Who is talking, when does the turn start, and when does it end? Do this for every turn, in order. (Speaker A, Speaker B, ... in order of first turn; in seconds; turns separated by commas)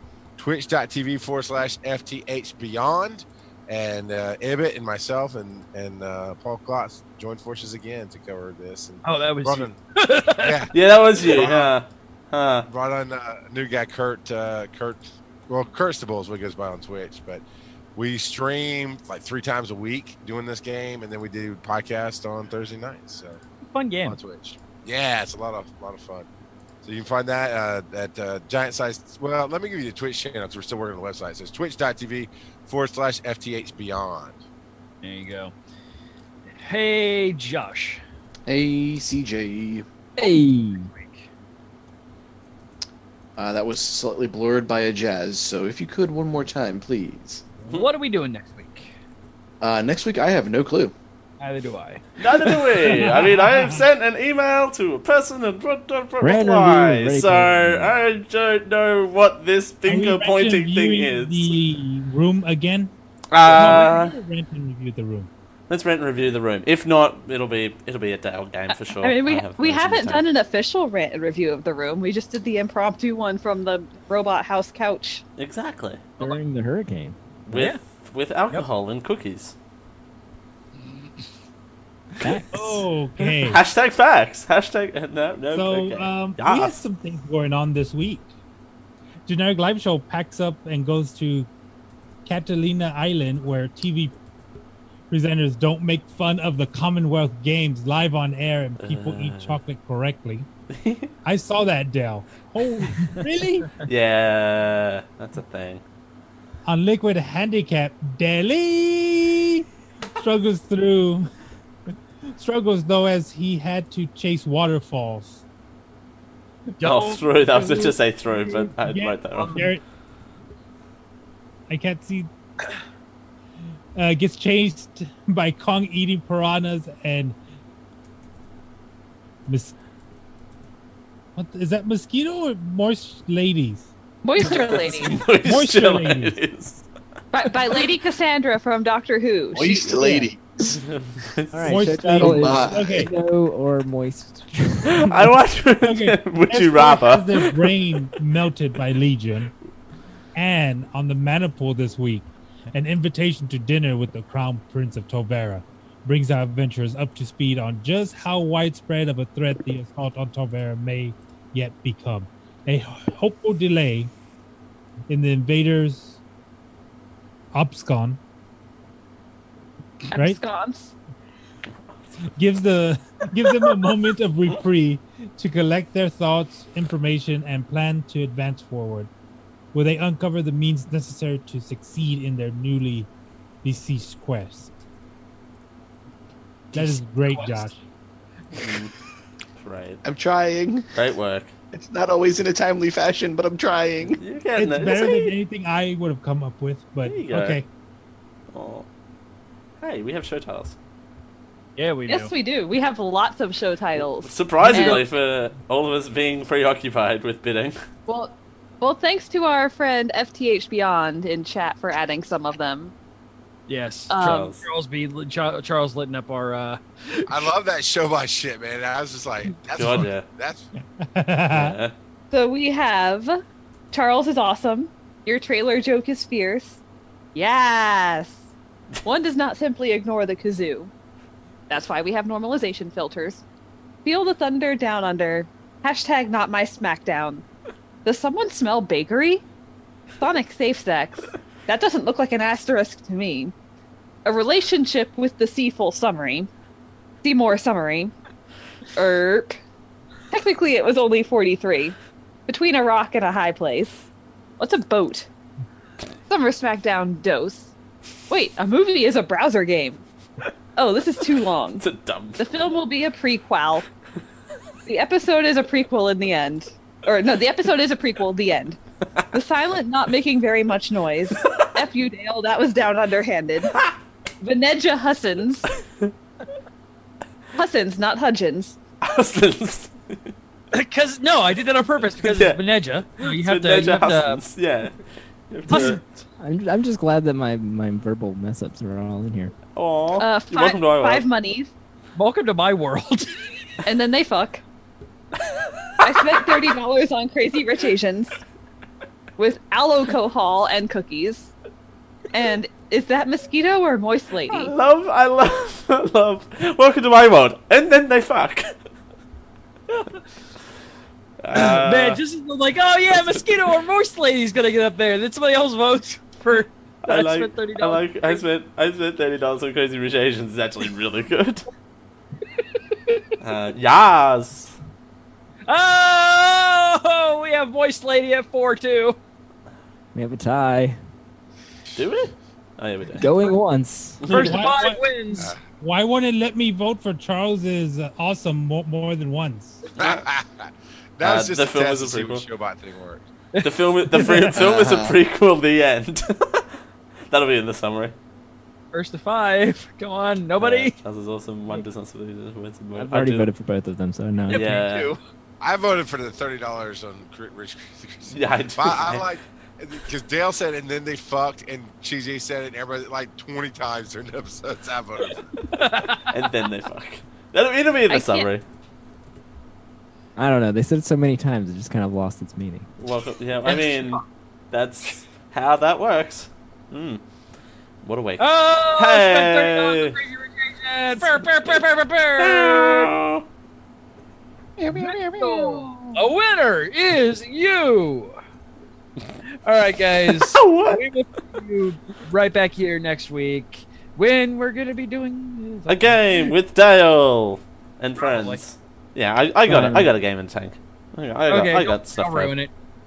Speaker A: 0.4-9.8, Speaker B: 9.0-10.7, Speaker A: 10.4-10.7, Speaker C: 10.7-12.7, Speaker A: 11.2-11.7, Speaker A: 12.7-17.4, Speaker A: 17.9-23.4, Speaker B: 23.7-24.2, Speaker A: 24.1-26.3, Speaker A: 26.8-34.4, Speaker B: 35.0-35.5, Speaker B: 36.5-38.0, Speaker D: 38.5-39.9, Speaker E: 40.2-40.9, Speaker B: 40.2-41.3, Speaker D: 43.4-47.5, Speaker B: 47.6-48.9, Speaker D: 49.6-50.9, Speaker B: 51.4-53.1, Speaker C: 52.2-61.6, Speaker F: 52.9-53.9, Speaker E: 56.2-57.9, Speaker F: 59.9-65.3, Speaker C: 63.3-64.2, Speaker C: 65.7-70.2, Speaker G: 68.7-75.2, Speaker C: 75.4-76.1, Speaker E: 76.2-77.2, Speaker C: 77.5-79.5, Speaker B: 77.5-77.8, Speaker E: 82.2-82.8, Speaker F: 82.5-83.6, Speaker C: 83.2-86.8, Speaker F: 85.5-88.3, Speaker F: 89.3-91.5, Speaker F: 92.3-94.2, Speaker F: 95.1-100.5, Speaker C: 98.8-99.6, Speaker C: 100.7-101.1, Speaker F: 101.2-103.7, Speaker C: 103.8-105.8, Speaker F: 106.7-109.7, Speaker F: 110.2-111.3, Speaker F: 112.4-115.4, Speaker B: 116.8-117.9, Speaker C: 116.8-119.6, Speaker F: 118.5-119.8, Speaker B: 119.3-119.7, Speaker F: 121.7-122.3, Speaker F: 124.0-127.4, Speaker F: 129.5-129.7, Speaker F: 131.3-133.9, Speaker G: 134.2-135.2, Speaker C: 134.4-136.8, Speaker F: 135.2-136.4, Speaker G: 137.3-139.7, Speaker D: 139.5-140.7, Speaker E: 139.9-140.3, Speaker C: 140.7-142.0, Speaker E: 141.5-145.3, Speaker F: 141.6-143.1, Speaker D: 142.2-142.8, Speaker C: 145.1-147.8, Speaker F: 145.8-149.5, Speaker F: 150.3-164.1, Speaker F: 165.1-166.2, Speaker F: 167.5-168.2, Speaker G: 170.1-170.9, Speaker F: 170.1-170.4, Speaker F: 172.4-179.1, Speaker F: 179.7-183.1, Speaker F: 183.6-184.7, Speaker F: 186.7-187.8, Speaker B: 187.3-187.7, Speaker C: 188.6-188.9, Speaker C: 189.6-190.0, Speaker D: 190.0-190.9, Speaker C: 190.9-191.5, Speaker D: 191.7-194.2, Speaker C: 194.2-195.4, Speaker F: 194.6-197.7, Speaker C: 197.1-197.6, Speaker C: 198.5-198.9, Speaker C: 199.8-200.8, Speaker B: 201.8-202.3, Speaker G: 202.1-205.0, Speaker C: 204.2-207.8, Speaker F: 204.7-204.9, Speaker G: 208.1-212.9, Speaker B: 213.7-217.3, Speaker G: 214.1-214.5, Speaker C: 214.2-214.6, Speaker A: 217.3-220.7, Speaker C: 219.8-220.3, Speaker F: 220.8-221.8, Speaker C: 221.5-221.9, Speaker G: 222.3-223.4, Speaker G: 223.9-226.8, Speaker G: 227.3-228.5, Speaker G: 229.0-230.9, Speaker G: 231.7-233.4, Speaker G: 234.1-237.4, Speaker G: 238.1-239.4, Speaker G: 240.2-243.5, Speaker G: 244.2-246.5, Speaker G: 247.2-248.1, Speaker G: 248.9-249.6, Speaker G: 250.3-251.9, Speaker G: 252.5-254.1, Speaker G: 254.6-255.3, Speaker G: 256.3-257.7, Speaker G: 258.3-260.0, Speaker G: 260.8-261.8, Speaker C: 261.8-262.4, Speaker G: 262.4-263.9, Speaker G: 264.9-268.8, Speaker G: 269.3-273.8, Speaker G: 274.4-275.7, Speaker G: 277.5-278.8, Speaker C: 279.0-280.3, Speaker B: 280.7-284.4, Speaker C: 282.2-282.6, Speaker C: 283.2-286.0, Speaker E: 285.7-289.5, Speaker B: 285.7-285.9, Speaker C: 289.7-291.2, Speaker G: 290.2-291.7, Speaker B: 292.1-293.7, Speaker G: 293.9-294.6, Speaker G: 296.0-298.4, Speaker G: 299.4-301.5, Speaker G: 302.3-304.7, Speaker C: 304.5-308.7, Speaker C: 311.4-312.2, Speaker B: 311.6-318.4, Speaker C: 313.1-313.4, Speaker C: 317.1-321.6, Speaker B: 322.8-323.2, Speaker C: 323.4-324.7, Speaker B: 325.7-329.2, Speaker E: 330.1-331.0, Speaker C: 331.9-333.3, Speaker E: 333.2-334.5, Speaker C: 334.2-334.7, Speaker B: 334.2-335.6, Speaker F: 334.3-339.8, Speaker A: 340.0-343.3, Speaker C: 341.2-342.4, Speaker B: 343.5-344.5, Speaker C: 343.6-346.7, Speaker D: 344.6-345.1, Speaker C: 347.3-348.1, Speaker B: 348.9-350.9, Speaker C: 350.6-353.5, Speaker E: 352.9-354.8, Speaker B: 354.5-355.2, Speaker C: 354.5-355.1, Speaker A: 355.6-365.4, Speaker C: 358.3-359.3, Speaker B: 365.7-366.4, Speaker C: 366.3-368.6, Speaker G: 368.1-368.5, Speaker E: 370.4-372.9, Speaker C: 373.0-377.2, Speaker B: 373.6-374.2, Speaker C: 378.0-380.2, Speaker B: 378.4-383.1, Speaker C: 382.4-383.4, Speaker B: 384.8-388.4, Speaker C: 384.9-385.2, Speaker G: 385.4-385.9, Speaker B: 389.6-396.5, Speaker C: 390.3-391.0, Speaker C: 395.9-402.5, Speaker B: 398.2-398.6, Speaker E: 399.7-400.1, Speaker B: 401.5-402.7